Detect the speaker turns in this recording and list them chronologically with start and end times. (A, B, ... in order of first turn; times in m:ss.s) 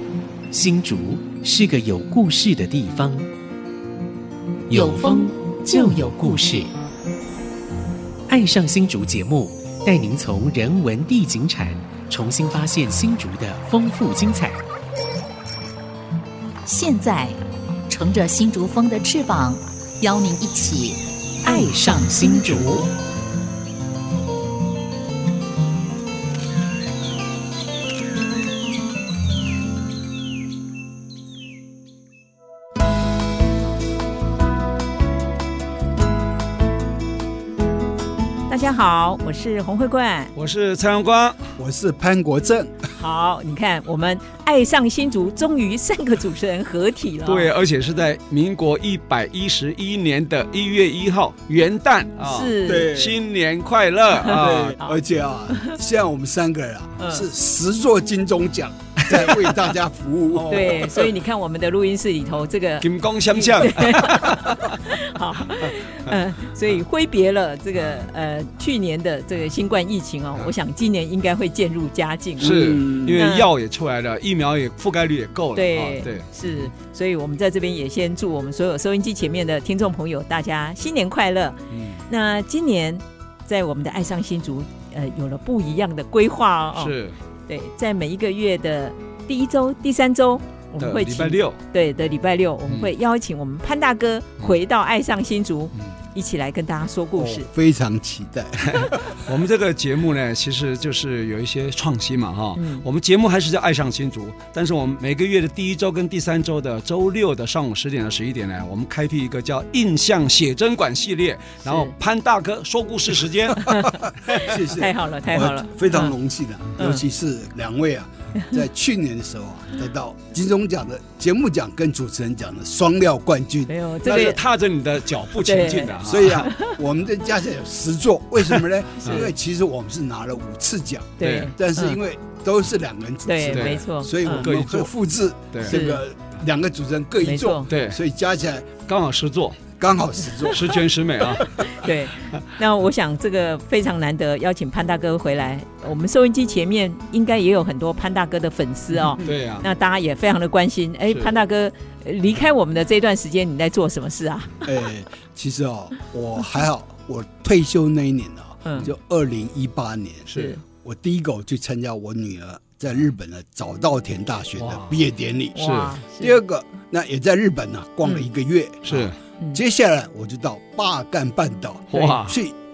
0:00.5-0:03.3 A
0:04.7-0:06.7 A
0:08.3-0:14.6 A
0:16.6-0:21.0 B
0:21.4-0:22.9 A
0:21.9-0:22.5 B
0:38.5-0:40.3 C
0:40.3-0:41.5 D
0:41.6-0:42.7 E
0:43.0-0:47.5 C
0:47.2-0:54.8 D
0:52.2-0:53.0 C
0:52.6-0:53.2 E
0:54.2-0:55.0 C
0:54.7-1:01.0 E
0:57.0-0:57.2 C
0:59.0-0:59.7 D
1:00.3-1:01.0 D
1:00.5-1:12.6 C
1:02.8-1:04.8 D
1:05.6-1:06.2 D
1:12.4-1:16.6 D
1:12.4-1:13.2 E
1:13.1-1:13.5 C
1:15.5-1:26.9 C
1:21.7-1:22.0 D
1:26.7-1:27.1 D
1:27.5-1:37.5 C
1:30.8-1:31.6 D
1:37.2-1:39.2 E
1:38.6-1:53.8 D
1:42.6-1:42.8 C
1:51.6-1:51.9 C
1:53.6-1:56.1 C
1:54.0-2:04.1 E
1:56.8-1:57.0 C
2:03.7-2:04.4 C
2:04.0-2:06.5 D
2:05.3-2:06.7 C
2:06.0-2:18.8 E
2:08.5-2:09.3 D
2:09.0-2:09.3 C
2:11.2-2:12.0 C
2:11.2-2:11.5 D
2:13.2-2:14.5 C
2:13.4-2:14.9 D
2:15.5-2:15.8 D
2:15.7-2:16.0 C
2:17.2-2:17.7 C
2:17.6-2:18.0 D
2:18.9-2:19.6 D
2:19.8-2:20.8 E
2:20.5-2:22.4 D
2:21.6-2:34.7 C
2:29.2-2:29.7 D
2:34.6-2:52.5 E
2:40.3-2:40.6 D
2:40.3-2:40.6 C
2:44.6-2:45.0 D
2:45.5-2:46.4 C
2:45.6-2:46.0 D
2:48.8-2:49.1 D
2:51.9-2:52.4 D